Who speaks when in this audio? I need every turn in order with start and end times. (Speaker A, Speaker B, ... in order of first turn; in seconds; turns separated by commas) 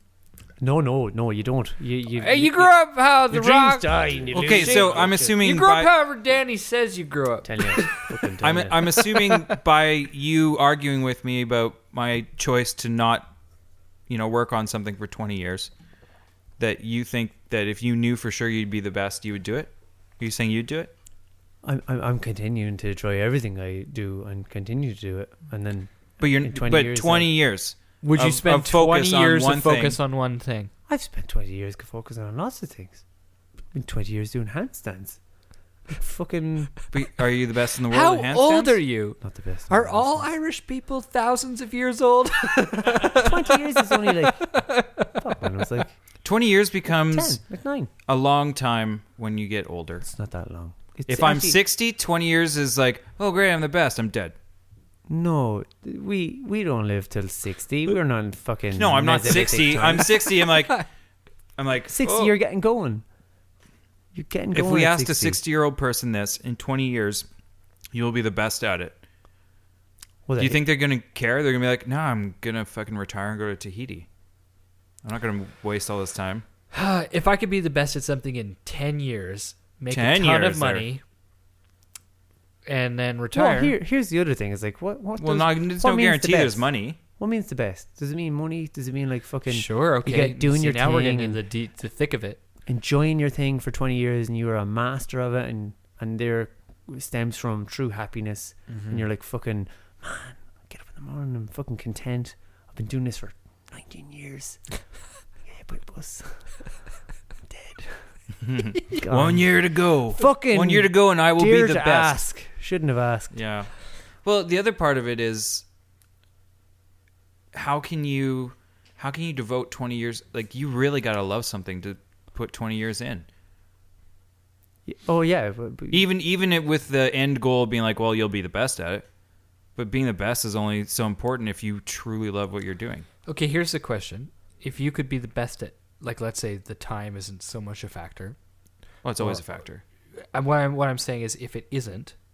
Speaker A: 0.6-5.4, Speaker B: 2.2-8.1, Speaker C: 4.3-5.9, Speaker A: 7.4-8.9, Speaker C: 8.4-13.3, Speaker C: 14.1-15.7, Speaker C: 16.6-20.9, Speaker A: 21.6-27.5, Speaker C: 26.2-30.0, Speaker B: 28.0-30.7, Speaker A: 30.9-33.0, Speaker A: 33.7-35.2, Speaker A: 35.9-36.8, Speaker C: 36.9-38.8, Speaker B: 37.9-45.2, Speaker A: 39.2-40.3, Speaker A: 43.1-46.0, Speaker C: 46.2-50.1, Speaker A: 47.1-47.9, Speaker A: 50.0-51.6, Speaker C: 51.1-54.4, Speaker A: 55.1-60.5, Speaker C: 58.8-60.9, Speaker C: 61.6-62.3, Speaker A: 61.9-63.0, Speaker A: 64.1-65.4, Speaker C: 64.5-67.3, Speaker C: 67.9-69.0, Speaker A: 70.3-70.7, Speaker C: 70.4-74.1, Speaker C: 75.0-76.5, Speaker B: 76.7-81.0, Speaker C: 79.9-80.9, Speaker B: 82.7-83.8, Speaker A: 83.3-91.4, Speaker C: 85.2-87.0, Speaker B: 89.5-92.4, Speaker A: 92.7-104.9, Speaker B: 98.7-99.0, Speaker A: 105.5-106.7, Speaker A: 107.5-108.1, Speaker C: 108.4-112.2, Speaker A: 108.9-113.4, Speaker C: 113.3-115.6, Speaker C: 117.5-123.3, Speaker A: 124.9-126.1, Speaker C: 125.9-129.1, Speaker C: 129.8-133.1, Speaker B: 133.3-138.4, Speaker C: 139.0-139.8, Speaker B: 140.3-142.2